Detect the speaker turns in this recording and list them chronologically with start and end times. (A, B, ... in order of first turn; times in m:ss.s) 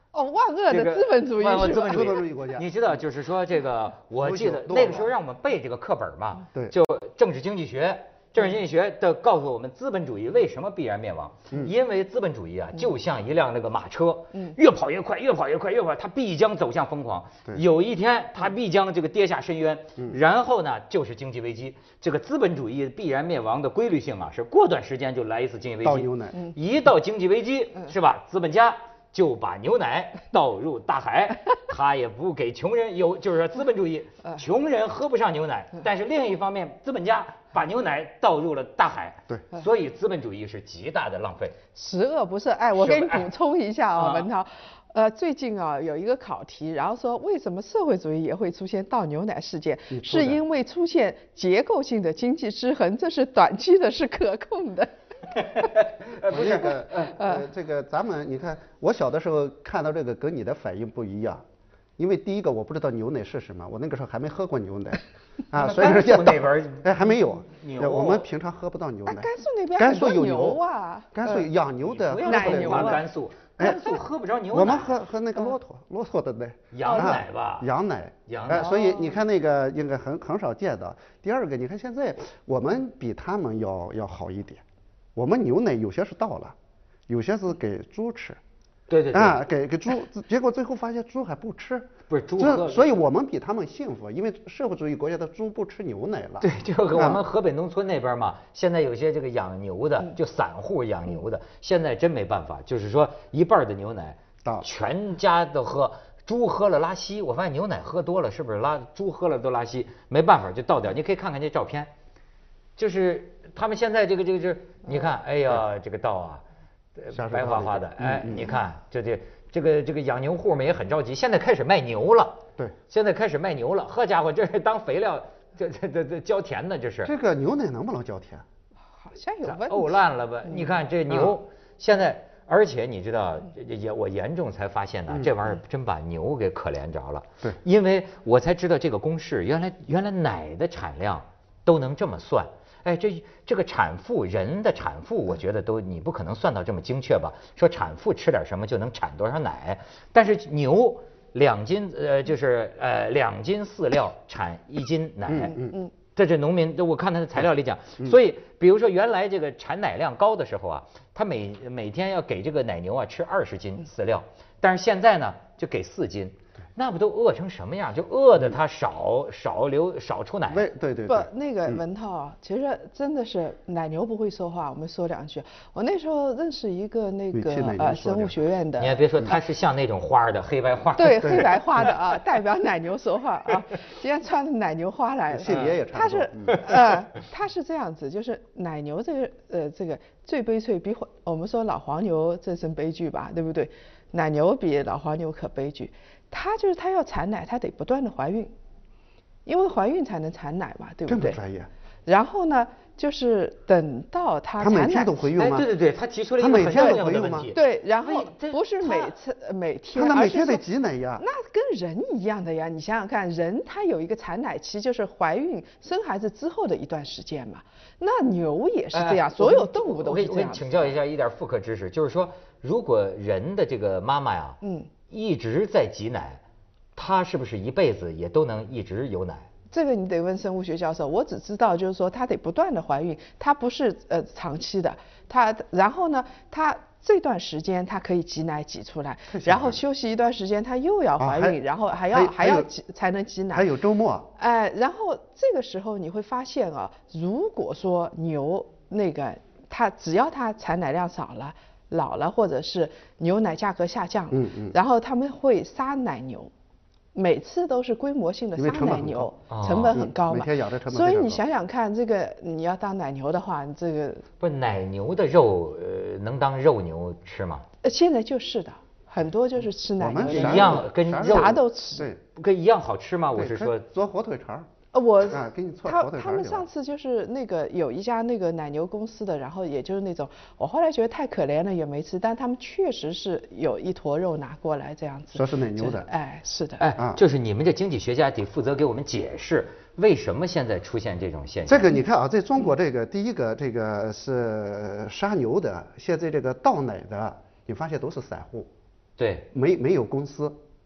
0:00.1-0:02.2 A
0:00.7-0:41.6 B
0:01.8-0:02.7 C
0:04.2-0:05.1 C
0:25.8-0:26.4 C
0:41.8-0:55.7 A
0:42.8-0:43.3 B
0:44.0-0:44.3 B
0:49.9-0:50.4 C
0:55.6-0:57.2 B
0:56.3-1:01.4 C
0:57.2-0:57.4 A
1:02.0-1:10.6 C
1:05.5-1:08.3 B
1:09.1-1:11.5 A
1:11.1-1:13.1 C
1:11.8-1:15.0 B
1:12.2-1:13.0 A
1:13.6-1:24.6 C
1:16.7-1:17.7 B
1:16.9-1:17.2 A
1:18.3-1:18.8 B
1:18.8-1:19.1 A
1:25.2-1:26.6 C
1:27.1-1:28.4 C
1:28.9-1:29.4 B
1:29.1-1:37.2 C
1:32.1-1:32.9 B
1:36.4-1:51.9 B
1:52.8-1:56.4 B
1:57.0-2:07.1 B
1:57.1-1:58.5 C
2:07.0-2:08.4 C
2:09.0-2:10.0 A
2:09.5-2:50.7 B
2:11.1-2:11.3 C
2:35.3-2:35.8 C
2:50.5-2:51.8 C
2:51.1-2:59.0 A
2:57.3-2:58.3 C
2:58.8-3:01.9 B
3:01.0-3:18.5 A
3:01.2-3:01.6 C
3:05.3-3:06.8 C
3:05.5-3:05.8 B
3:19.5-3:21.4 A
3:21.1-3:21.7 C
3:22.1-3:25.1 A
3:24.6-3:25.7 C
3:25.4-3:29.1 B
3:26.4-3:27.5 C
3:27.5-3:30.6 A
3:30.0-3:31.2 C
3:31.2-3:40.9 A
3:38.9-3:46.4 B
3:44.6-3:44.9 A
3:47.0-3:49.5 B
3:49.7-4:03.6 A
3:59.3-3:59.8 C
4:01.2-4:01.6 C
4:02.1-4:02.7 C
4:03.5-4:04.3 C
4:04.4-4:16.5 A
4:14.3-4:14.8 C
4:17.2-4:24.2 A
4:18.6-4:19.4 C
4:19.5-4:20.0 B
4:19.9-4:21.4 C
4:24.4-4:27.6 B
4:27.8-4:32.1 A
4:30.0-4:32.2 C
4:30.3-4:31.6 B
4:32.3-4:33.9 B
4:33.4-4:34.7 C
4:34.9-4:46.8 A
4:35.3-4:36.7 C
4:45.3-4:46.1 C
4:46.8-4:51.9 B
4:47.0-4:47.2 C
4:51.7-4:58.7 C
4:59.2-4:59.5 B
4:59.5-5:00.6 C